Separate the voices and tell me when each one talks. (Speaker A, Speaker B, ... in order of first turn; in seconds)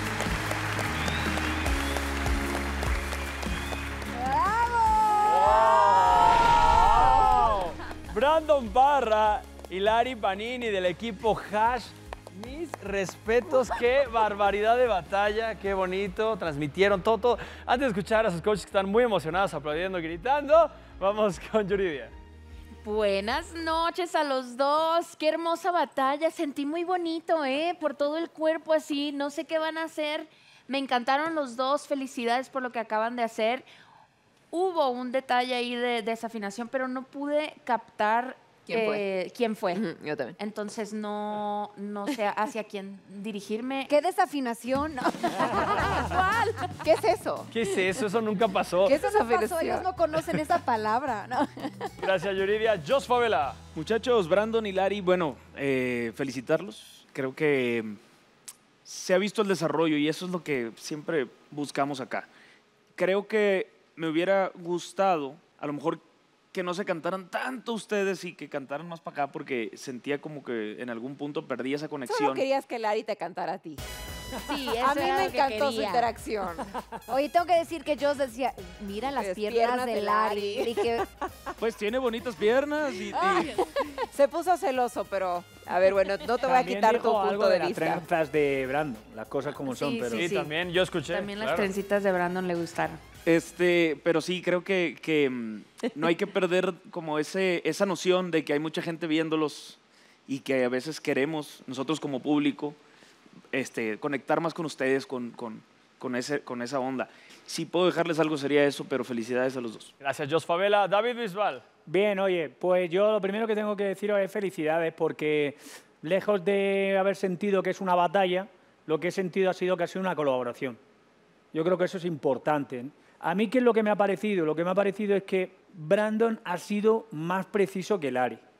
Speaker A: 4.2-6.5, 43.9-46.7, 48.9-51.9, 77.1-81.0
Speaker B: 5.2-22.1, 47.5-48.9, 52.0-53.6, 90.1-91.7, 110.0-111.6
Speaker C: 22.8-33.6, 34.5-39.8, 40.4-43.9, 46.0-46.4, 74.4-76.1, 89.7-90.4, 91.1-93.0
Speaker D: 38.7-39.0, 39.7-40.4, 46.8-47.5, 48.8-49.9, 72.0-73.8, 74.8-76.7, 79.2-81.1, 83.1-83.5, 84.1-88.0
Speaker E: 53.7-58.0, 58.9-62.3, 63.0-66.0, 66.5-72.5, 81.6-83.6, 93.2-102.8, 103.5-109.9
Speaker F: 86.4-90.2, 111.9-120.8, 121.5-128.4